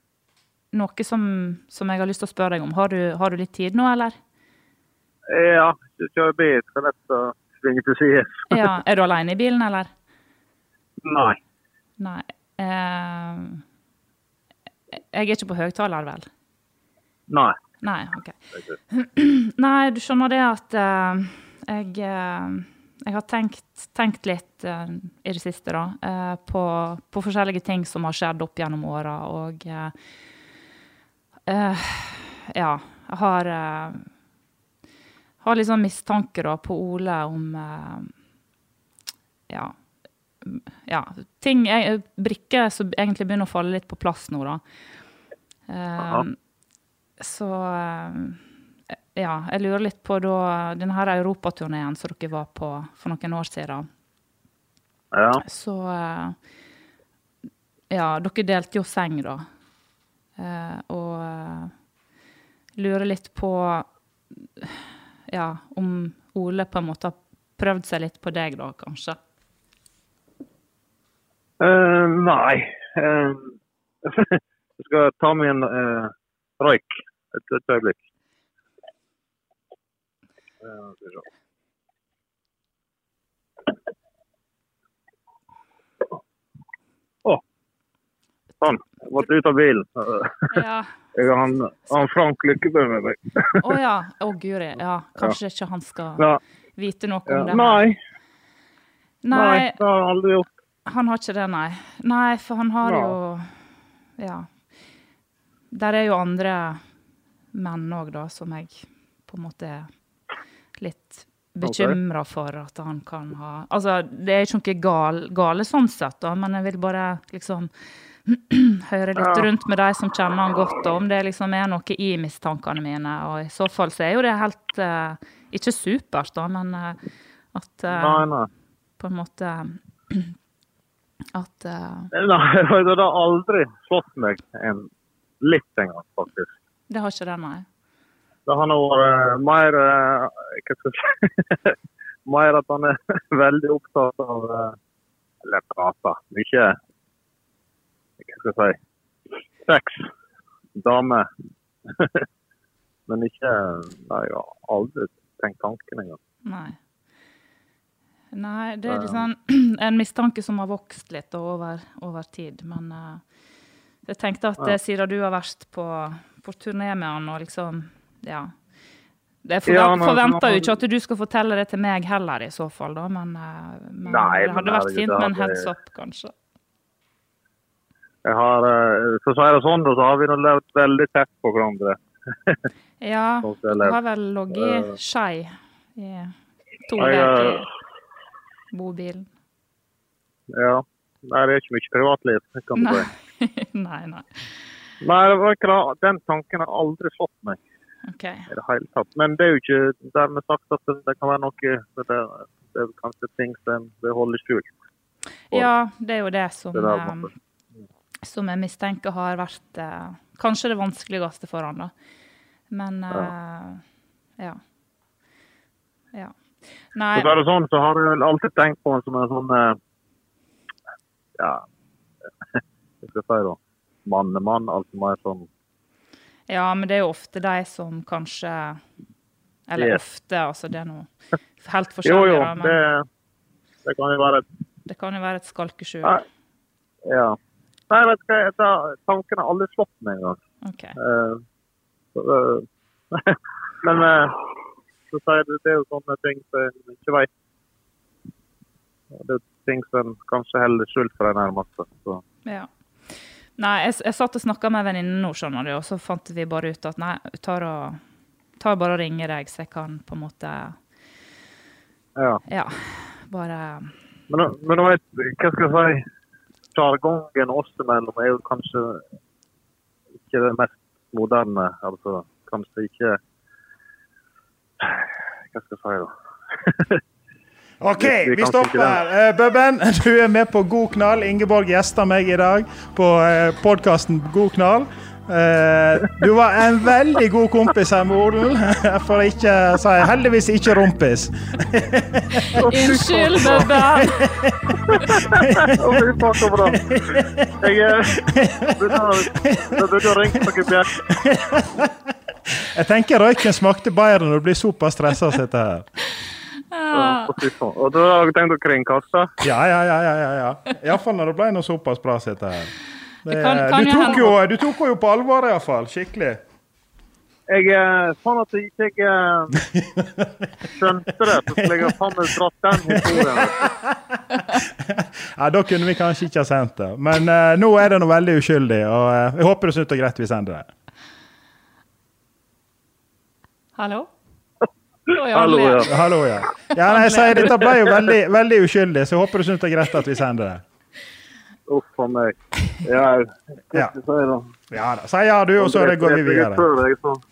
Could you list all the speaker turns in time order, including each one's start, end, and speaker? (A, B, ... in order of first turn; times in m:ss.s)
0:00.7-0:04.2 A
0:05.3-0:08.6 B
0:08.5-0:09.9 A
0:11.0-0:11.4 B
0:12.0-0:13.6 A
0:14.9-0:16.3 A
0:17.3-0:17.6 B
0:17.8-0:30.0 A
0:31.5-0:34.1 A
0:35.4-0:38.1 A
0:39.5-0:39.8 A
0:40.4-0:44.6 A
0:45.7-0:46.4 A
0:47.2-0:48.4 A
0:49.2-0:53.9 A
0:55.1-0:55.4 B
0:55.4-0:56.4 A
0:57.9-0:59.5 A
1:00.4-1:01.7 A
1:02.8-1:09.2 A
1:11.6-1:18.0 B
1:20.6-1:21.2 B
1:28.6-1:30.6 B
1:30.5-1:30.9 A
1:31.2-1:33.6 B
1:33.6-1:36.3 A
1:36.8-1:38.0 A
1:37.3-1:38.0 B
1:39.2-1:39.8 A
1:39.3-1:40.5 B
1:40.9-1:43.6 A
1:42.8-1:43.2 B
1:44.2-1:44.5 A
1:45.7-1:46.8 A
1:47.5-1:49.9 A
1:50.8-1:57.7 A
1:51.6-1:52.0 B
1:58.2-2:07.0 A
1:59.2-1:59.5 B
2:07.5-2:08.3 A
2:07.9-2:08.5 B
2:09.0-2:10.4 A
2:11.3-2:12.1 A
2:12.1-2:14.9 B
2:15.4-2:16.5 B
2:16.9-2:17.6 A
2:18.5-2:21.8 B
2:22.3-2:24.8 B
2:25.4-2:26.8 B
2:28.2-2:28.8 B
2:29.6-2:30.0 B
2:30.8-2:31.3 B
2:32.0-2:32.2 B
2:33.1-2:36.2 B
2:36.4-2:36.8 A
2:38.3-2:43.2 A
2:38.9-2:39.3 B
2:44.0-2:48.5 A
2:49.4-2:56.3 A
2:49.7-2:50.7 B
2:54.1-2:55.7 B
2:58.2-3:02.6 B
3:03.0-3:06.3 A
3:03.4-3:04.0 B
3:04.5-3:04.9 B
3:06.9-3:07.7 A
3:06.9-3:07.7 B
3:08.7-3:09.3 A
3:10.6-3:13.1 B
3:12.8-3:14.4 A
3:15.0-3:17.6 B
3:18.0-3:18.5 A
3:18.5-3:24.8 B
3:25.5-3:27.3 A
3:26.7-3:27.3 B
3:28.2-3:31.9 A
3:32.7-3:33.8 A
3:36.9-3:37.4 A
3:37.2-3:39.8 B
3:41.4-3:41.6 B
3:43.0-3:45.5 B
3:46.5-3:48.8 A
3:49.7-3:52.8 A
3:52.0-3:53.0 B
3:53.8-3:54.4 B
3:54.9-3:56.2 A
3:57.1-3:57.4 B
3:57.9-4:00.4 B
4:00.6-4:01.0 A
4:01.0-4:01.4 B
4:02.2-4:04.4 B
4:05.1-4:07.3 B
4:09.1-4:12.2 B
4:12.4-4:18.0 A
4:18.6-4:20.8 A
4:22.2-4:22.4 B
4:22.5-4:23.9 A
4:24.3-4:26.0 B
4:26.8-4:29.0 B
4:30.3-4:33.2 B
4:34.8-4:37.0 B
4:37.8-4:52.6 C
4:38.0-4:39.0 B
4:52.6-4:55.2 A
4:52.6-4:53.8 B
4:54.0-5:05.9 C
4:54.9-4:58.2 B
4:58.8-5:01.0 B
5:06.7-5:07.4 A
5:06.9-5:09.4 B
5:09.4-5:12.7 C
5:13.2-5:16.4 C
5:13.3-5:14.3 A
5:17.5-5:19.6 B
5:19.6-5:20.5 C
5:20.6-5:23.7 B
5:22.9-5:30.7 C
5:33.8-5:34.1 A
5:35.1-5:36.0 A
5:35.3-5:36.0 B
5:35.9-5:40.6 C
5:36.8-5:37.6 A
5:41.7-5:44.6 B
5:44.7-5:46.7 C
5:45.6-5:47.2 B